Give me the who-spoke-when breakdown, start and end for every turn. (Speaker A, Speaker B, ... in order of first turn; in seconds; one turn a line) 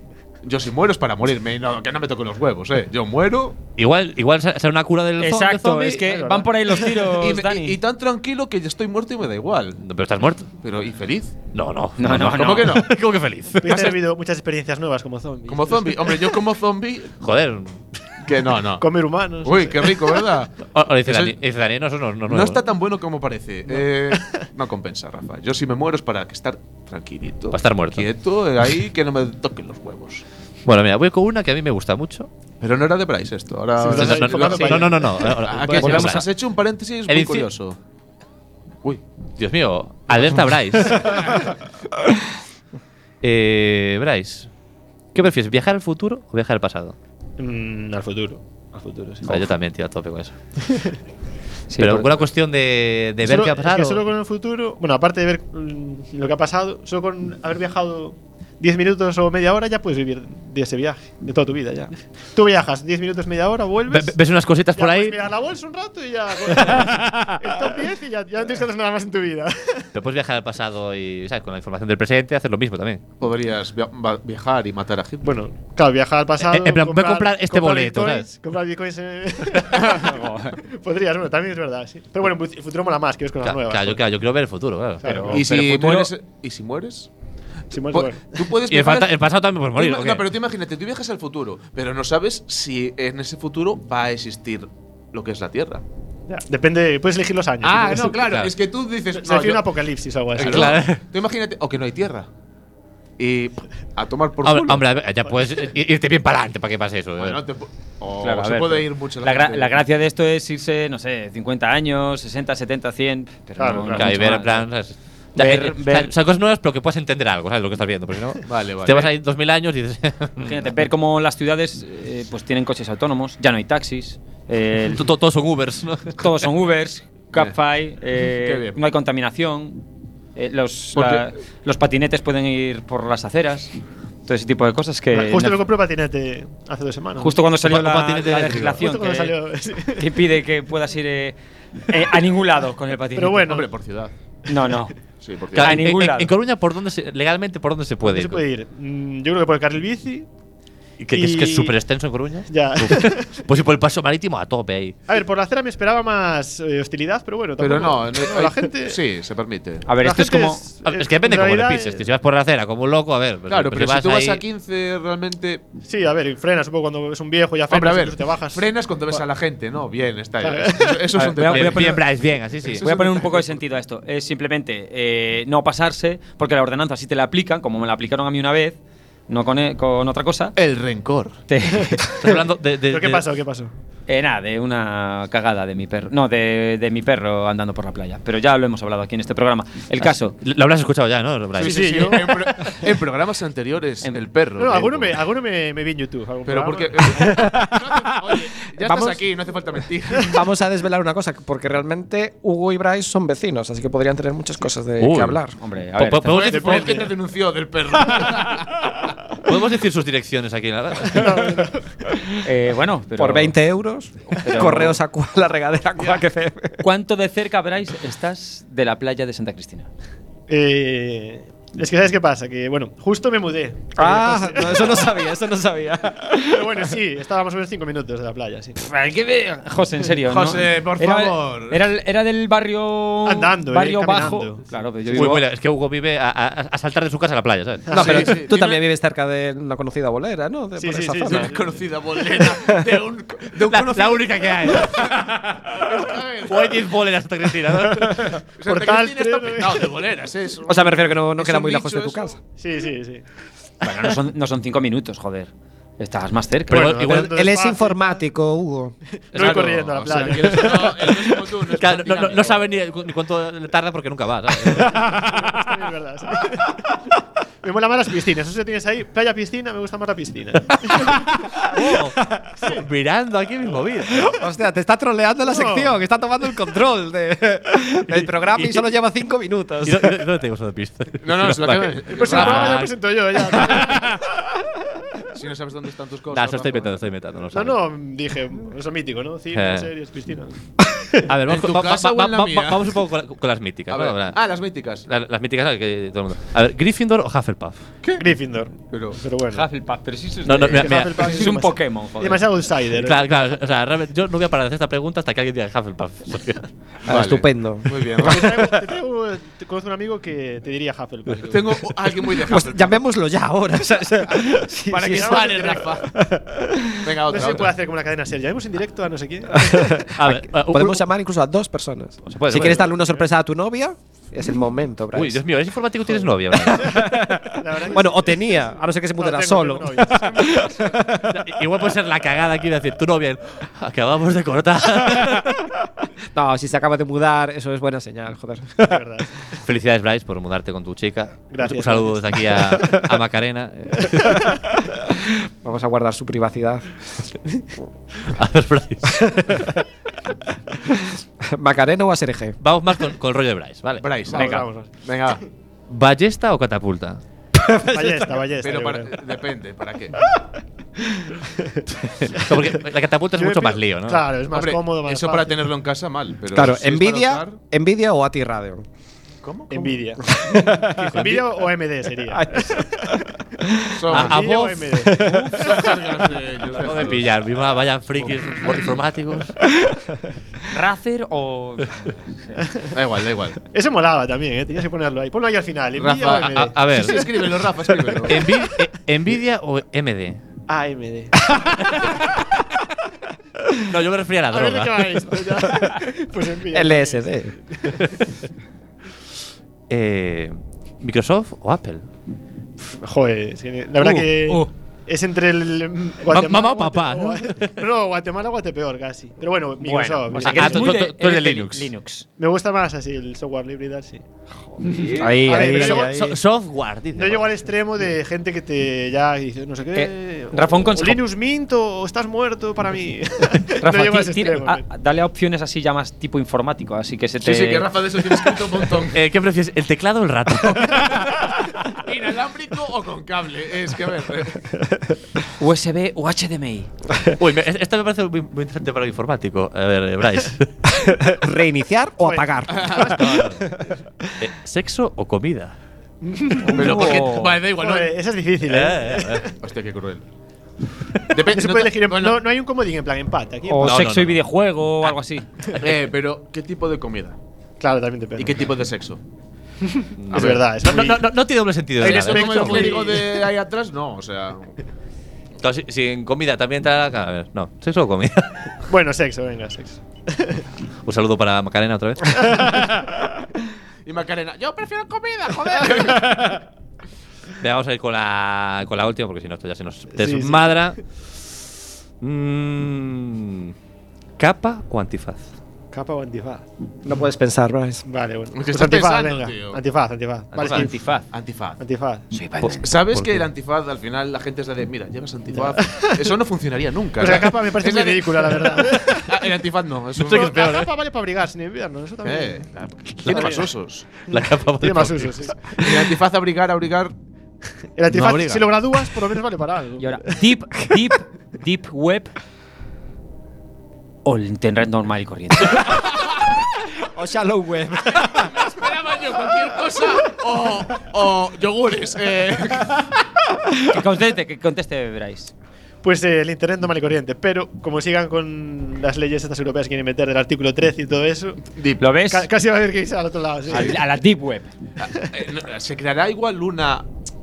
Speaker A: 0.4-3.6
Speaker B: 3.8-6.0
Speaker C: 5.2-7.8
Speaker D: 6.1-6.8
Speaker A: 7.1-9.8
Speaker B: 9.8-10.5
Speaker A: 10.6-11.4
Speaker B: 11.5-13.8
Speaker C: 12.0-12.7
Speaker A: 12.2-12.9
Speaker D: 13.6-16.4
Speaker A: 13.6-14.0
Speaker A: 15.5-17.1
Speaker B: 17.2-17.8
Speaker A: 18.2-18.8
Speaker D: 18.8-20.2
Speaker A: 19.4-21.4
Speaker B: 20.7-22.6
Speaker A: 22.3-30.2
Speaker B: 27.5-28.1
Speaker B: 30.6-32.3
Speaker A: 32.6-37.8
Speaker D: 33.8-35.9
Speaker B: 33.9-36.3
Speaker B: 37.1-37.5
Speaker B: 39.4-41.4
Speaker B: 43.2-44.5
Speaker B: 45.1-46.9
Speaker D: 47.4-49.5
Speaker B: 49.2-50.3
Speaker C: 51.7-52.2
Speaker B: 51.8-54.0
Speaker D: 53.2-64.2
Speaker B: 63.9-65.2
Speaker D: 64.7-69.9
Speaker B: 66.5-67.6
Speaker B: 69.9-73.0
Speaker A: 73.2-75.4
Speaker D: 75.2-84.1
Speaker B: 76.4-78.2
Speaker C: 80.1-80.5
Speaker B: 83.4-86.1
Speaker D: 85.0-85.5
Speaker A: 85.3-87.1
Speaker D: 87.7-88.5
Speaker A: 87.8-95.8
Speaker B: 88.7-90.3
Speaker D: 96.3-98.2
Speaker A: 97.6-99.7
Speaker B: 98.2-98.5
Speaker D: 99.1-100.8
Speaker A: 100.4-102.3
Speaker B: 100.4-101.0
Speaker A: 103.2-104.8
Speaker B: 104.4-107.4
Speaker A: 107.2-109.7
Speaker C: 108.2-114.7
Speaker D: 113.6-114.2
Speaker B: 113.9-120.6
Speaker C: 115.4-116.1
Speaker A: 118.5-119.1
Speaker C: 120.4-125.0
Speaker B: 124.9-126.3
Speaker C: 126.2-129.8
Speaker A: 128.4-128.8
Speaker C: 130.3-133.7
Speaker A: 130.9-131.2
Speaker C: 134.2-135.6
Speaker D: 135.1-137.4
Speaker C: 137.2-139.3
Speaker B: 137.6-138.8
Speaker D: 138.8-140.1
Speaker C: 139.9-143.6
Speaker D: 143.1-143.7
Speaker A: 143.4-144.1
Speaker C: 144.5-144.9
Speaker A: 145.2-145.8
Speaker B: 145.5-148.4
Speaker C: 145.6-146.3
Speaker D: 148.0-150.3
Speaker B: 151.0-154.9
Speaker D: 151.1-151.8
Speaker D: 152.5-153.4
Speaker D: 155.1-159.0
Speaker A: 157.6-159.8
Speaker C: 159.8-160.6
Speaker D: 160.0-162.1
Speaker B: 160.8-164.4
Speaker A: 163.5-165.6
Speaker D: 165.8-169.2
Speaker A: 167.7-173.4
Speaker D: 170.4-171.3
Speaker B: 171.2-172.9
Speaker C: 171.2-172.0
Speaker C: 172.8-180.5
Speaker A: 180.6-181.3
Speaker C: 181.5-182.0
Speaker D: 181.9-183.7
Speaker B: 182.0-183.2
Speaker C: 184.1-190.4
Speaker B: 190.4-192.2
Speaker D: 191.6-192.9
Speaker A: 191.6-195.2
Speaker D: 194.6-197.5
Speaker A: 196.4-200.4
Speaker E: 197.1-198.0
Speaker E: 198.8-199.3
Speaker E: 200.2-205.5
Speaker B: 205.0-205.4
Speaker C: 205.6-206.5
Speaker B: 205.9-207.1
Speaker A: 206.2-208.8
Speaker D: 206.5-207.1
Speaker B: 209.4-211.6
Speaker D: 211.0-212.1
Speaker C: 212.4-213.5
Speaker E: 213.2-216.8
Speaker C: 214.4-215.0
Speaker C: 216.8-219.9
Speaker D: 220.5-225.2
Speaker E: 223.9-226.9
Speaker D: 226.5-228.8
Speaker C: 228.8-235.4
Speaker A: 230.2-231.8
Speaker D: 233.2-235.3
Speaker B: 235.1-238.3
Speaker D: 237.9-238.4
Speaker E: 237.9-241.6
Speaker A: 237.9-238.8
Speaker D: 240.8-241.6
Speaker A: 241.2-246.8
Speaker E: 242.4-242.9
Speaker B: 243.7-245.9
Speaker B: 246.4-248.4
Speaker D: 247.7-249.9
Speaker A: 248.6-252.3
Speaker E: 250.7-252.4
Speaker D: 252.6-253.2
Speaker C: 253.8-256.9
Speaker B: 256.7-257.3
Speaker D: 256.7-258.2
Speaker E: 256.7-258.9
Speaker D: 259.3-261.4
Speaker A: 259.3-262.6
Speaker B: 261.8-265.7
Speaker D: 264.8-266.9
Speaker D: 267.6-271.2
Speaker B: 270.7-274.3
Speaker D: 272.6-272.9
Speaker E: 274.2-280.2
Speaker D: 275.5-275.9
Speaker B: 278.5-278.8
Speaker B: 279.8-284.1
Speaker A: 281.2-282.9
Speaker D: 282.1-285.2
Speaker A: 285.3-287.0
Speaker B: 286.3-287.8
Speaker D: 287.5-291.2
Speaker B: 289.5-289.9
Speaker B: 291.2-294.4
Speaker A: 291.5-292.9
Speaker A: 293.9-295.1
Speaker B: 295.1-297.8
Speaker A: 298.0-298.3
Speaker D: 298.2-299.6
Speaker A: 298.9-299.2
Speaker C: 299.5-302.4
Speaker B: 300.4-301.5
Speaker D: 300.8-303.2
Speaker B: 302.9-306.7
Speaker A: 307.0-308.6
Speaker E: 307.1-308.7
Speaker D: 308.2-311.8
Speaker A: 311.5-313.0
Speaker E: 312.4-316.8
Speaker A: 314.9-316.1
Speaker D: 315.0-316.0
Speaker A: 317.0-317.7
Speaker D: 317.3-320.1
Speaker E: 319.7-325.4
Speaker B: 320.1-321.0
Speaker C: 322.3-322.9
Speaker B: 322.5-322.9
Speaker B: 325.1-327.0
Speaker E: 326.5-331.4
Speaker D: 326.8-330.9
Speaker B: 331.3-335.6
Speaker E: 336.3-339.0
Speaker D: 338.8-339.4
Speaker B: 339.6-344.6
Speaker D: 341.5-343.0
Speaker E: 344.9-347.8
Speaker B: 348.2-349.6
Speaker E: 349.1-349.8
Speaker E: 350.7-352.6
Speaker B: 352.6-354.6
Speaker A: 354.0-355.4
Speaker D: 354.3-354.9
Speaker B: 355.9-357.2
Speaker E: 357.5-358.4
Speaker D: 357.9-359.1
Speaker A: 358.6-360.2
Speaker D: 361.6-361.8
Speaker B: 362.0-364.2
Speaker D: 363.3-365.6
Speaker A: 364.5-367.6
Speaker E: 366.5-368.9
Speaker A: 369.4-370.0
Speaker D: 369.7-373.2
Speaker E: 370.2-371.4
Speaker B: 371.1-371.4
Speaker E: 372.2-374.0
Speaker A: 374.0-374.5
Speaker B: 374.1-374.9
Speaker D: 374.1-375.9
Speaker E: 374.9-375.6
Speaker C: 375.2-375.6
Speaker A: 375.6-377.2
Speaker B: 376.8-379.5
Speaker C: 380.7-382.6
Speaker A: 382.9-383.6
Speaker D: 383.7-388.5
Speaker A: 385.9-388.4
Speaker B: 386.4-387.2
Speaker B: 388.2-390.4
Speaker D: 390.7-391.5
Speaker B: 391.8-392.4
Speaker B: 393.9-395.2
Speaker D: 394.5-397.2
Speaker E: 396.7-397.6
Speaker B: 399.9-402.1
Speaker D: 402.8-410.9
Speaker B: 404.0-404.7
Speaker B: 406.3-407.7
Speaker C: 409.8-412.2
Speaker B: 410.4-411.9
Speaker D: 412.4-414.2
Speaker C: 414.8-415.2
Speaker D: 414.9-416.4
Speaker E: 415.1-416.1
Speaker B: 415.5-417.5
Speaker D: 417.1-424.8
Speaker C: 419.9-421.2
Speaker C: 423.8-427.9
Speaker A: 427.4-429.2
Speaker B: 429.1-431.6
Speaker A: 431.9-434.7
Speaker C: 435.6-436.9
Speaker B: 437.4-440.7
Speaker E: 440.9-443.4
Speaker D: 442.2-443.3
Speaker A: 442.7-443.1
Speaker B: 443.0-443.7
Speaker B: 444.4-445.8
Speaker D: 446.2-447.1
Speaker C: 446.7-447.6
Speaker A: 446.7-448.1
Speaker D: 447.8-449.5
Speaker B: 448.6-449.5
Speaker A: 449.6-450.2
Speaker A: 451.3-452.4
Speaker D: 451.5-454.0
Speaker C: 453.7-455.5
Speaker B: 453.8-454.4
Speaker B: 455.7-455.9
Speaker A: 455.8-457.4
Speaker D: 457.8-458.6
Speaker A: 458.4-459.2
Speaker D: 459.8-461.2
Speaker B: 460.2-463.1
Speaker A: 460.3-461.1
Speaker A: 462.0-464.7
Speaker D: 462.0-463.4
Speaker B: 465.6-468.8
Speaker D: 468.9-470.6
Speaker B: 471.0-472.8
Speaker D: 472.6-473.3
Speaker A: 474.1-476.6
Speaker B: 477.6-481.0
Speaker D: 480.2-480.8
Speaker B: 482.2-483.7
Speaker B: 484.4-485.5
Speaker D: 485.9-486.7
Speaker E: 487.0-488.0
Speaker D: 488.0-490.9
Speaker A: 488.5-489.8
Speaker B: 490.5-490.9
Speaker C: 490.6-491.2
Speaker A: 491.3-491.8
Speaker D: 491.8-492.3
Speaker C: 492.3-492.8
Speaker A: 492.8-500.8
Speaker B: 493.1-493.4
Speaker D: 495.5-496.1
Speaker D: 497.2-499.4
Speaker B: 500.2-500.9
Speaker D: 500.2-503.7
Speaker A: 502.2-504.1
Speaker B: 503.2-503.6
Speaker B: 504.2-506.0
Speaker D: 504.3-505.7
Speaker A: 505.8-507.1
Speaker D: 508.0-510.2
Speaker A: 508.1-508.8
Speaker C: 510.0-512.3
Speaker C: 514.2-515.9
Speaker E: 517.0-518.7
Speaker A: 518.1-523.1
Speaker C: 523.9-525.5
Speaker D: 526.0-531.6
Speaker A: 531.8-532.0
Speaker C: 532.0-532.5
Speaker D: 532.3-534.0
Speaker C: 533.7-534.7
Speaker A: 535.0-537.1